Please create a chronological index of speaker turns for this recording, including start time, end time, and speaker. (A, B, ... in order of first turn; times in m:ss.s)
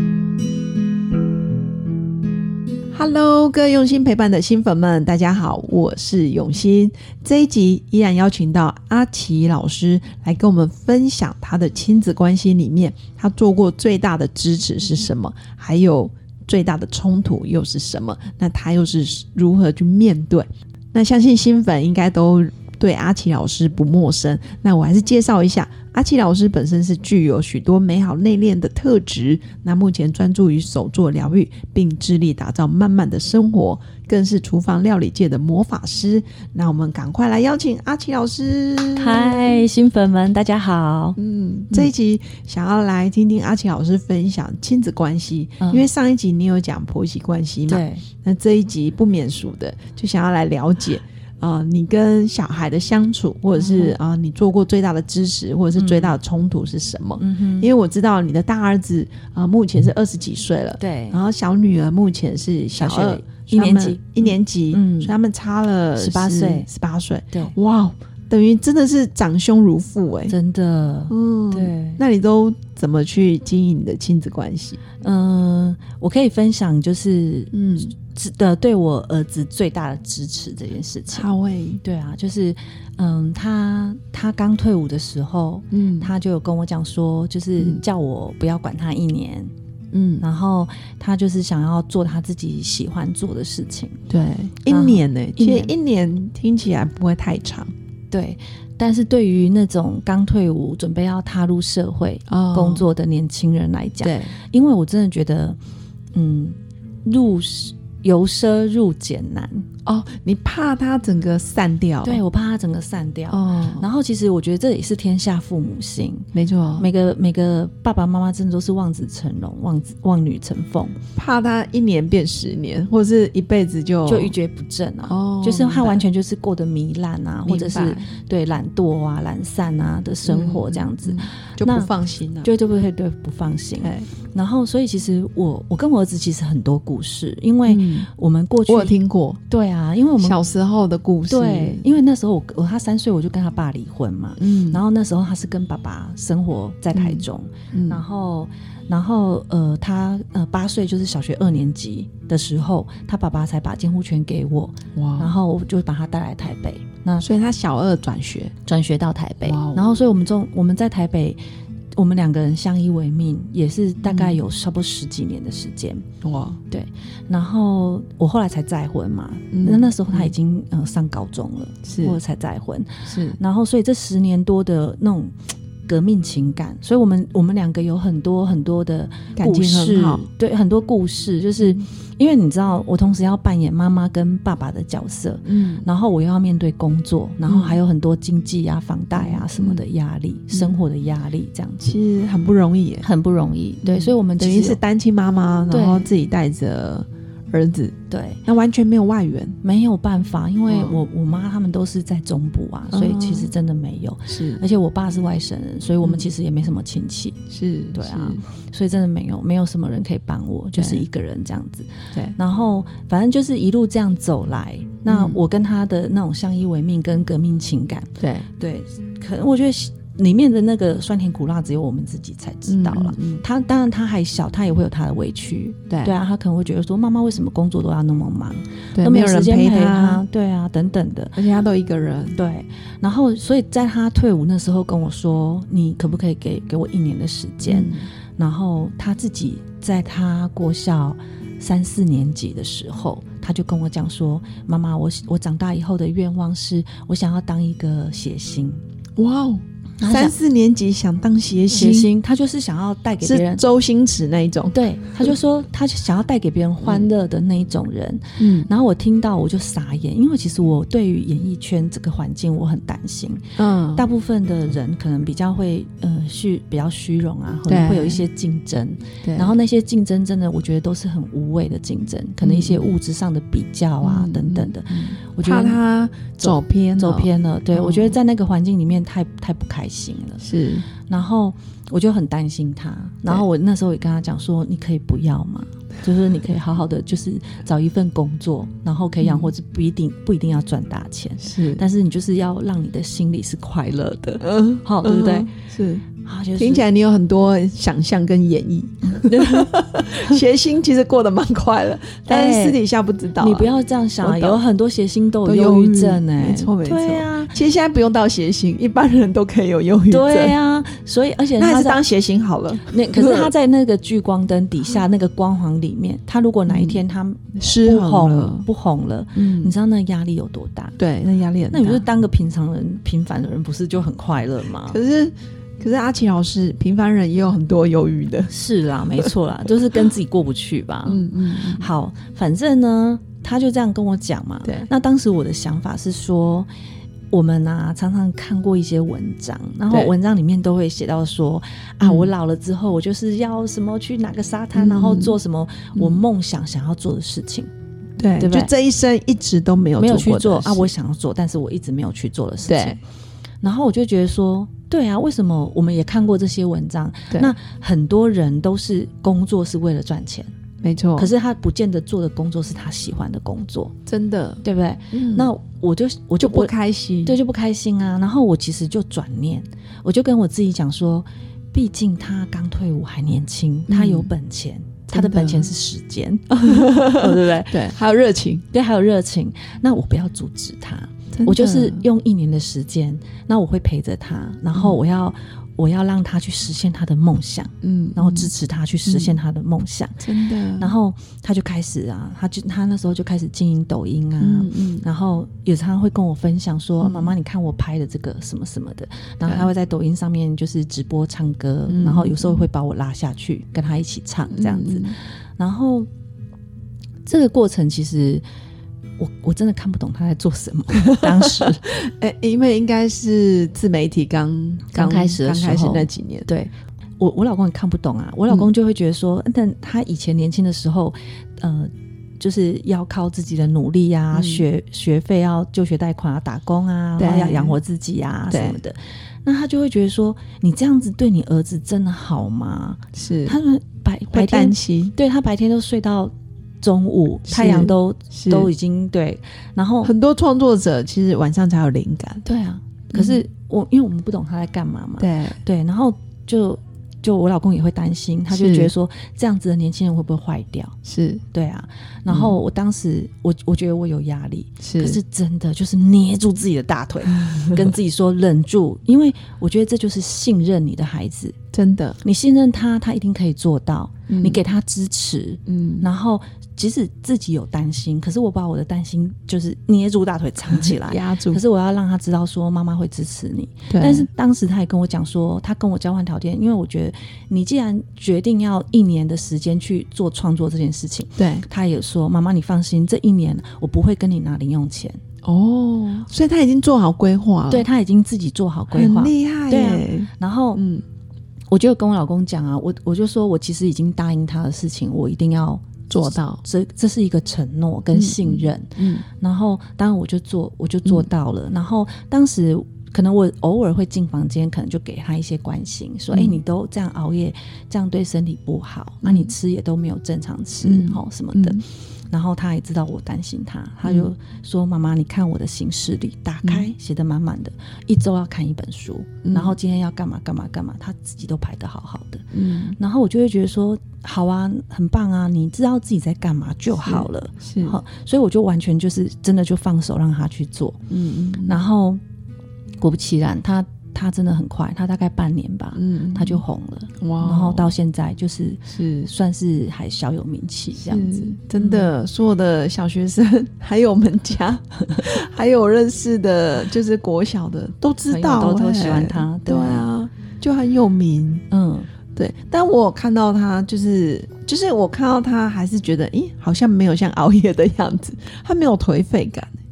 0:02.9-0:39.7 A
0:39.0-0:41.2 B
0:41.2-1:10.4 A
0:45.6-0:45.9 B
0:47.7-0:48.0 B
0:53.6-0:54.0 B
0:55.8-0:56.2 B
0:57.2-0:57.7 B
1:00.8-1:01.2 B
1:02.8-1:05.2 B
1:06.0-1:06.7 B
1:10.3-1:12.0 B
1:11.1-1:14.8 A
1:15.0-1:21.3 B
1:17.5-1:17.9 A
1:21.1-1:21.8 A
1:21.8-1:29.5 B
1:25.7-1:26.1 A
1:29.9-1:30.2 A
1:30.2-1:34.0 B
1:34.1-1:37.7 A
1:34.7-1:35.7 B
1:38.1-1:45.6 B
1:42.3-1:42.9 A
1:44.0-1:44.3 A
1:46.1-1:49.7 B
1:49.9-1:52.2 A
1:52.0-2:01.0 B
1:53.3-1:53.9 A
1:56.3-1:56.9 A
2:01.2-2:04.4 A
2:04.1-2:11.9 B
2:05.1-2:06.0 A
2:07.5-2:08.1 A
2:10.3-2:12.5 A
2:12.4-2:19.0 B
2:13.8-2:14.1 A
2:17.7-2:18.1 A
2:18.7-2:19.4 A
2:19.5-2:20.4 B
2:20.2-2:21.8 A
2:21.3-2:37.2 B
2:24.4-2:24.8 A
2:26.9-2:28.0 A
2:35.0-2:35.3 A
2:37.2-2:38.5 A
2:38.7-2:41.4 B
2:39.4-2:40.0 A
2:42.0-2:46.0 B
2:44.0-2:44.4 A
2:46.2-2:46.6 A
2:46.7-2:55.4 B
2:49.5-2:50.3 A
2:51.8-2:52.2 A
2:53.1-2:53.4 A
2:55.9-3:11.9 B
2:59.4-3:00.2 A
3:05.5-3:05.9 A
3:07.5-3:07.8 A
3:09.2-3:09.8 A
3:11.8-3:13.1 A
3:13.0-3:14.8 B
3:13.8-3:18.0 A
3:15.7-3:16.1 B
3:18.1-3:18.4 B
3:18.5-3:19.6 A
3:19.6-3:27.4 B
3:20.7-3:21.0 A
3:22.9-3:23.5 A
3:24.3-3:24.6 A
3:26.0-3:26.3 A
3:27.5-3:28.4 A
3:28.0-3:51.4 B
3:30.8-3:31.0 A
3:35.1-3:35.4 A
3:38.2-3:38.5 A
3:42.7-3:43.4 A
3:45.9-3:46.2 A
3:49.0-3:50.2 A
3:51.4-3:52.4 A
3:52.3-4:08.8 B
3:57.7-3:58.1 A
4:09.2-4:12.1 A
4:10.0-4:10.3 B
4:11.7-4:13.6 B
4:13.2-4:15.3 A
4:14.7-4:23.4 B
4:16.8-4:17.1 A
4:18.4-4:18.7 A
4:23.6-4:24.1 A
4:24.0-4:35.8 B
4:27.7-4:28.3 A
4:29.2-4:29.6 A
4:32.4-4:32.9 A
4:34.0-4:38.2 A
4:36.4-4:40.4 B
4:40.4-4:40.9 A
4:41.0-4:55.5 B
4:49.2-4:49.5 A
4:51.4-4:51.8 A
4:54.4-4:56.1 A
4:56.2-4:56.8 B
4:56.6-5:04.6 A
4:59.2-4:59.7 B
5:02.3-5:02.8 B
5:03.4-5:07.6 B
5:05.4-5:10.6 A
5:10.1-5:12.0 B
5:11.6-5:13.5 A
5:12.9-5:21.0 B
5:16.7-5:17.0 A
5:17.6-5:18.7 A
5:19.4-5:19.7 A
5:21.0-5:22.1 A
5:21.7-5:25.0 B
5:24.9-5:28.5 A
5:28.5-5:36.7 B
5:31.0-5:31.9 A
5:34.6-5:34.9 A
5:37.3-5:47.7 B
5:42.0-5:42.3 A
5:44.8-5:45.4 A
5:46.0-5:46.2 A
5:48.2-5:50.9 A
5:48.4-5:48.7 B
5:50.0-5:53.0 B
5:52.7-5:53.0 A
5:53.6-6:00.5 B
6:00.8-6:01.3 A
6:01.2-6:03.9 B
6:04.1-6:05.5 A
6:04.6-6:06.7 B
6:06.4-6:07.4 A
6:07.2-6:17.9 B
6:13.9-6:14.3 A
6:15.1-6:15.7 A
6:16.6-6:18.6 A
6:18.7-6:30.2 B
6:21.3-6:22.1 A
6:24.7-6:25.0 A
6:27.8-6:28.5 A
6:29.1-6:29.4 A
6:30.2-6:30.9 A
6:30.8-6:46.1 B
6:34.4-6:35.0 A
6:37.0-6:37.4 A
6:41.9-6:42.6 A
6:44.5-6:45.2 A
6:47.2-6:48.4 B
6:49.2-6:51.8 B
6:51.0-6:56.5 A
6:54.9-7:20.1 B
7:04.3-7:04.6 A
7:07.2-7:07.8 A
7:08.5-7:08.8 A
7:13.1-7:13.6 A
7:14.3-7:15.1 A
7:17.5-7:18.7 A
7:20.0-7:22.4 A
7:22.4-7:31.0 B
7:23.1-7:23.4 A
7:25.2-7:25.6 A
7:28.5-7:28.9 A
7:31.0-7:31.4 A
7:31.5-7:41.6 B
7:32.3-7:32.6 A
7:34.8-7:35.2 A
7:41.7-7:42.2 A
7:42.2-8:05.2 B
7:44.3-7:44.6 A
7:45.7-7:46.1 A
7:50.7-7:51.6 A
7:53.9-7:54.3 A
8:01.4-8:01.7 A
8:05.4-8:07.9 A
8:07.7-8:10.9 B
8:08.9-8:11.0 A
8:11.7-8:42.4 B
8:16.1-8:16.6 A
8:18.1-8:19.2 A
8:26.3-8:26.6 A
8:29.2-8:29.5 A
8:30.8-8:31.8 A
8:34.0-8:34.3 A
8:36.6-8:36.9 A
8:39.4-8:39.8 A
8:42.5-8:43.0 A
8:43.0-8:51.0 B
8:47.0-8:48.0 A
8:51.1-8:51.8 A
8:51.6-8:52.2 B
8:53.0-9:02.1 B
8:56.0-8:56.6 A
8:57.2-8:57.9 A
8:58.9-8:59.3 A
9:01.0-9:11.7 A
9:08.3-9:10.1 B
9:11.7-9:12.1 B
9:12.4-9:19.7 A